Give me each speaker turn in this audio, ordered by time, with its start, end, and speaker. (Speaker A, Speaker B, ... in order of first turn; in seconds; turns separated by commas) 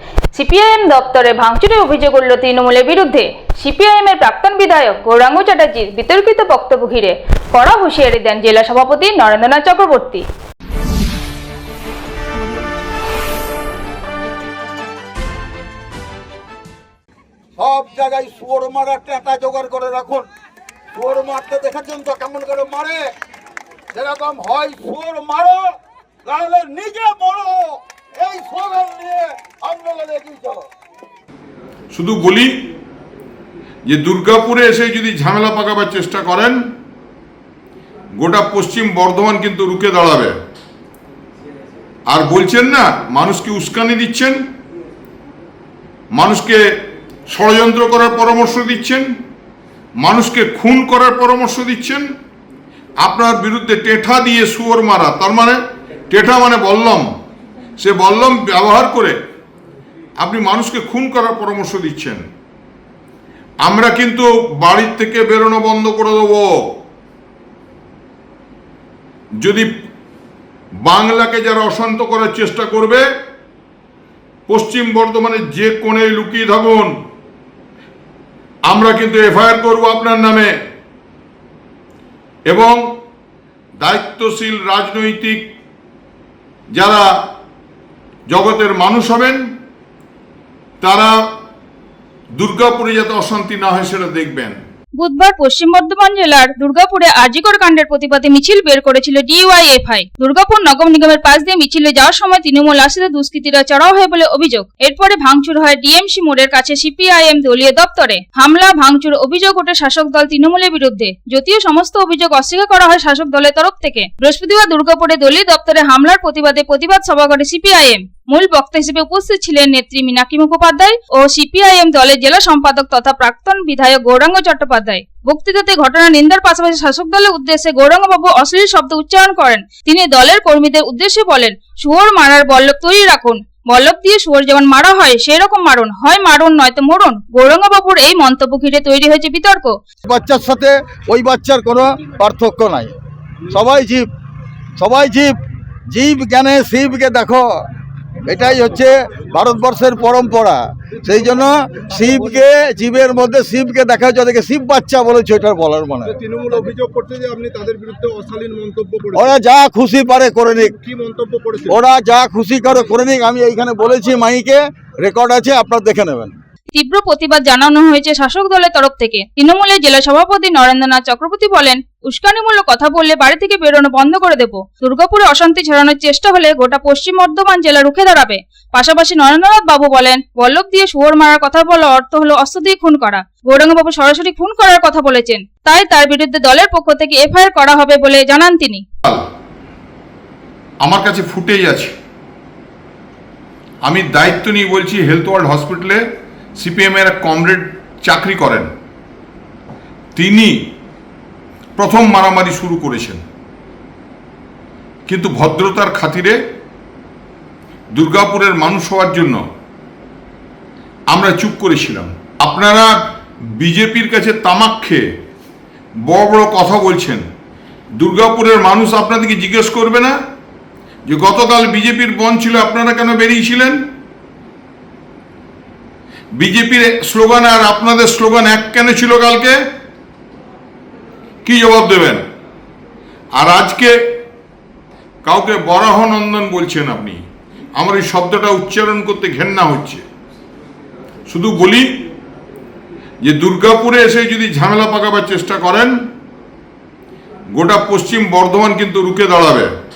Speaker A: 0.3-10.2, Speaker B: 17.6-20.3, Speaker B: 20.9-23.1, Speaker B: 23.9-25.7, Speaker B: 26.2-30.6, Speaker C: 31.9-32.5, Speaker C: 33.9-36.6, Speaker C: 38.2-40.3, Speaker C: 42.1-44.4, Speaker C: 46.1-46.6, Speaker C: 47.3-49.1, Speaker C: 50.0-52.1, Speaker C: 53.0-57.1, Speaker C: 57.8-59.2, Speaker C: 60.2-62.3, Speaker C: 63.6-66.5, Speaker C: 69.4-69.7, Speaker C: 70.8-73.0, Speaker C: 74.5-77.0, Speaker C: 78.7-80.5, Speaker C: 82.5-82.8, Speaker C: 83.8-85.5, Speaker C: 86.7-87.1, Speaker C: 88.3-89.4, Speaker C: 90.8-91.1, Speaker C: 92.4-94.6, Speaker A: 95.0-139.8, Speaker B: 140.1-142.9, Speaker B: 143.5-144.1, Speaker B: 144.8-145.3, Speaker B: 145.9-147.5, Speaker B: 148.3-156.2, Speaker D: 156.2-159.3, Speaker B: 159.2-160.7, Speaker D: 160.9-161.7, Speaker B: 161.7-166.3, Speaker A: 166.7-188.8, Speaker C: 190.8-191.9, Speaker C: 193.8-196.0, Speaker C: 196.6-198.7, Speaker C: 200.2-200.6, Speaker C: 201.8-203.2, Speaker C: 205.1-206.4, Speaker C: 207.9-209.4, Speaker C: 211.1-212.9, Speaker C: 213.6-215.0, Speaker C: 216.1-217.2, Speaker C: 218.0-220.2, Speaker C: 221.1-223.8, Speaker C: 226.4-229.6, Speaker C: 231.4-232.2, Speaker C: 233.4-234.0, Speaker C: 235.2-237.2, Speaker C: 237.8-240.1, Speaker C: 241.3-241.9, Speaker C: 243.2-245.9, Speaker C: 247.5-249.7